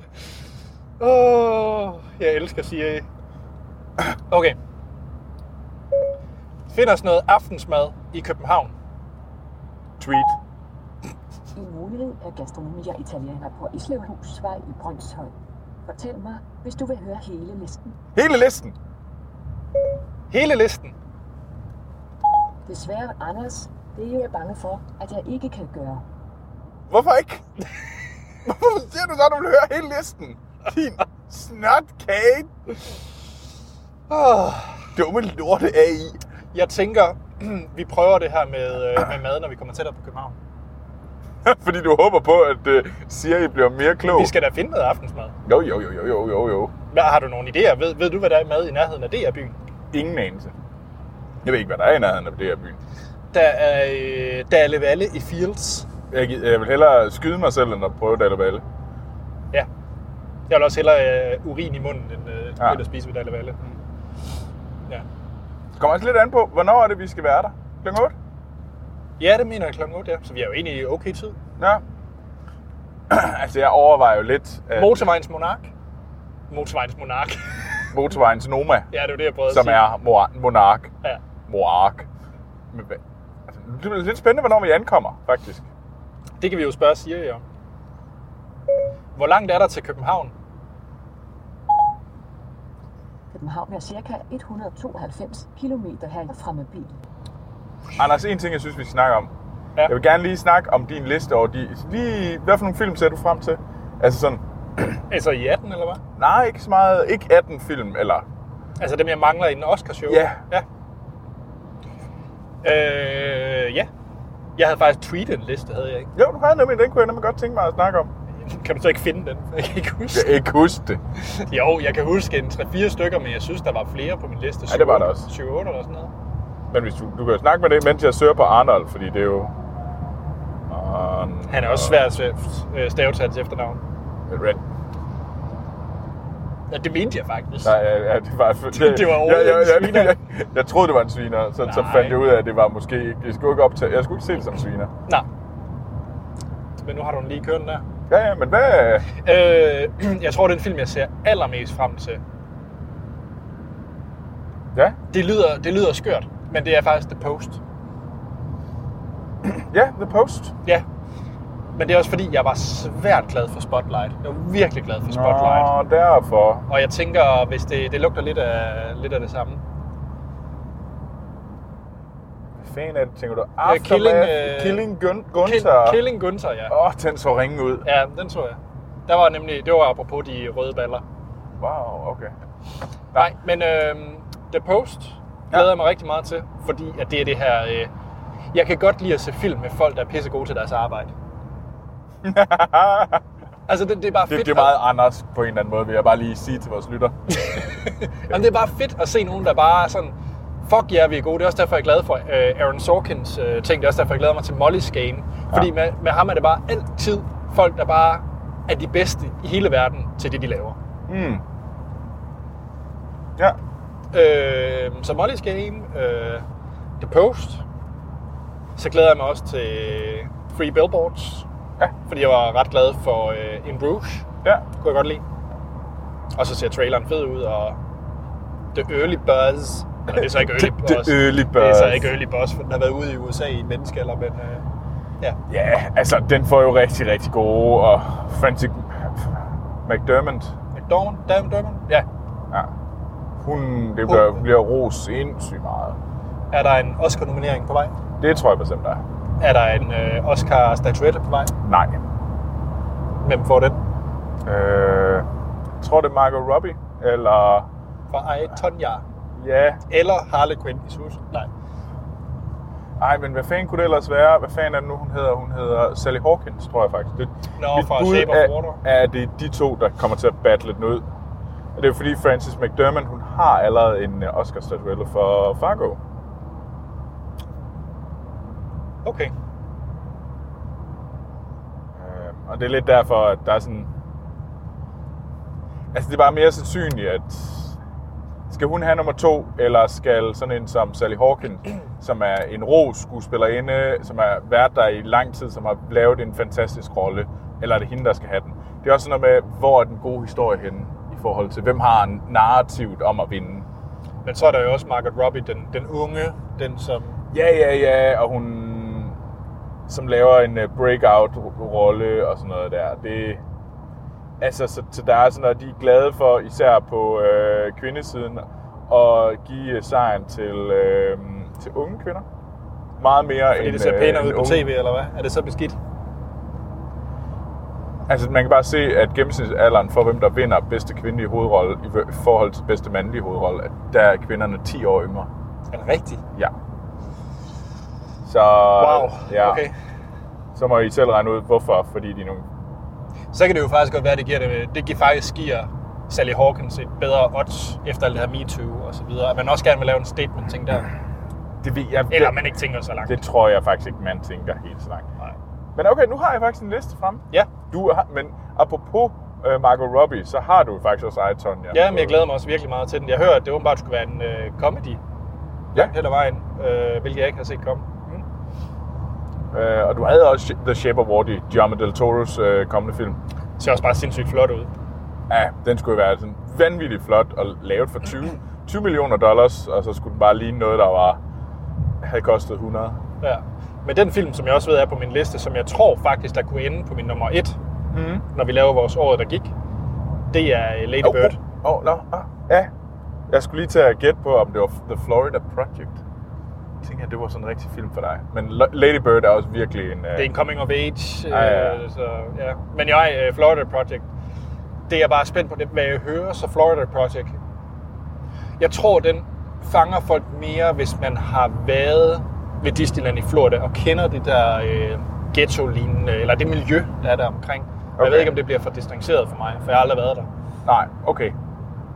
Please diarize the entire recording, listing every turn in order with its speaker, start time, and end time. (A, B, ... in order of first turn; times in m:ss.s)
0:01.0-0:03.0 A
0:04.3-0:04.6 A
0:06.7-0:08.7 A
0:10.0-0:10.4 B
0:11.5-0:15.3 C
0:15.8-0:18.0 C
0:18.1-0:18.7 B
0:20.3-0:20.9 A
0:22.6-0:26.0 C
0:26.9-0:27.4 B
0:28.4-0:33.0 B
0:34.1-0:34.9 A
0:34.9-0:36.2 B
0:36.5-0:40.4 A
0:41.4-0:44.3 B
0:44.0-0:45.3 A
0:45.4-0:46.7 B
0:46.9-0:49.5 A
0:49.9-0:50.6 B
0:51.4-0:52.8 B
0:53.3-0:55.9 A
0:56.1-0:58.6 B
1:00.5-1:03.6 A
1:05.8-1:08.1 B
1:09.2-1:11.4 A
1:11.6-1:11.8 B
1:13.1-1:15.0 B
1:14.7-1:15.7 A
1:16.5-1:17.8 A
1:17.9-1:18.9 B
1:18.9-1:19.8 A
1:19.5-1:20.9 B
1:21.5-1:22.1 B
1:22.7-1:25.6 B
1:26.4-1:27.4 A
1:29.2-1:30.3 A
1:33.3-1:37.0 C
1:38.0-1:39.3 B
1:39.9-1:45.0 B
1:45.1-1:46.0 A
1:46.2-1:48.2 B
1:48.8-1:50.6 A
1:50.1-1:50.4 B
1:52.6-1:53.9 A
1:54.6-1:56.1 A
1:56.1-1:58.1 B
1:58.4-2:00.3 A
2:00.1-2:01.0 B
2:01.2-2:06.1 A
2:04.7-2:05.3 B
2:06.7-2:09.6 B
2:10.7-2:12.0 B
2:11.5-2:13.8 A
2:14.3-2:14.6 B
2:16.7-2:17.7 A
2:17.6-2:24.9 B
2:18.7-2:20.1 A
2:21.6-2:22.2 A
2:26.8-2:27.8 A
2:28.1-2:29.1 B
2:29.1-2:32.2 A
2:35.1-2:37.6 A
2:39.4-2:40.5 B
2:41.8-2:45.7 A
2:45.1-2:46.6 B
2:46.7-2:49.6 A
2:52.5-2:56.0 B
2:53.6-2:54.8 A
2:55.4-2:56.7 A
2:56.7-2:57.8 B
2:57.8-3:01.0 A
3:01.6-3:02.3 B
3:03.2-3:07.9 A
3:08.5-3:11.1 A
3:12.2-3:13.2 B
3:13.7-3:14.7 A
3:14.3-3:17.2 B
3:17.3-3:30.8 A
3:31.1-3:31.4 B
3:34.1-3:36.4 A
3:37.0-3:37.6 A
3:38.8-3:41.4 A
3:42.1-3:45.2 A
3:46.3-3:47.8 A
3:48.7-3:54.6 A
3:50.1-3:52.1 B
3:55.5-4:00.5 B
4:00.7-4:02.0 A
4:03.4-4:06.0 B
4:04.1-4:04.3 A
4:06.5-4:07.9 A
4:08.2-4:09.0 B
4:09.4-4:11.5 A
4:11.6-4:12.0 B
4:13.2-4:13.8 A
4:14.4-4:15.3 B
4:15.8-4:17.7 B
4:18.1-4:19.0 A
4:19.4-4:19.8 B
4:19.9-4:21.5 A
4:23.0-4:31.0 B
4:27.6-4:28.8 A
4:31.8-4:36.0 B
4:39.0-4:39.3 A
4:42.0-4:43.9 B
4:45.9-4:47.8 B
4:48.5-5:03.6 B
5:04.2-5:07.2 A
5:07.3-5:09.1 B
5:09.9-5:13.4 B
5:14.4-5:22.2 B
5:23.0-5:24.7 B
5:23.6-5:25.8 A
5:28.1-5:35.3 B
5:35.7-5:36.2 A
5:38.2-5:39.6 B
5:38.7-5:39.7 A
5:40.5-5:42.5 B
5:43.3-5:50.9 A
5:51.6-5:52.4 B
5:52.1-5:53.2 A
5:53.0-5:55.1 B
5:55.8-6:02.2 B
6:01.7-6:05.0 A
6:05.7-6:08.2 A
6:09.5-6:13.2 B
6:13.6-6:14.7 A
6:15.3-6:21.2 B
6:22.0-6:23.0 B
6:23.2-6:27.6 A
6:27.9-6:28.2 B
6:28.3-6:29.5 A
6:30.3-6:31.4 A
6:31.0-6:32.7 B
6:33.3-6:36.0 B
6:36.8-6:40.3 B
6:40.2-6:44.1 A
6:41.3-6:41.8 B
6:44.9-6:47.4 A
6:48.6-7:00.3 A
6:58.0-6:58.4 B
7:00.6-7:01.3 B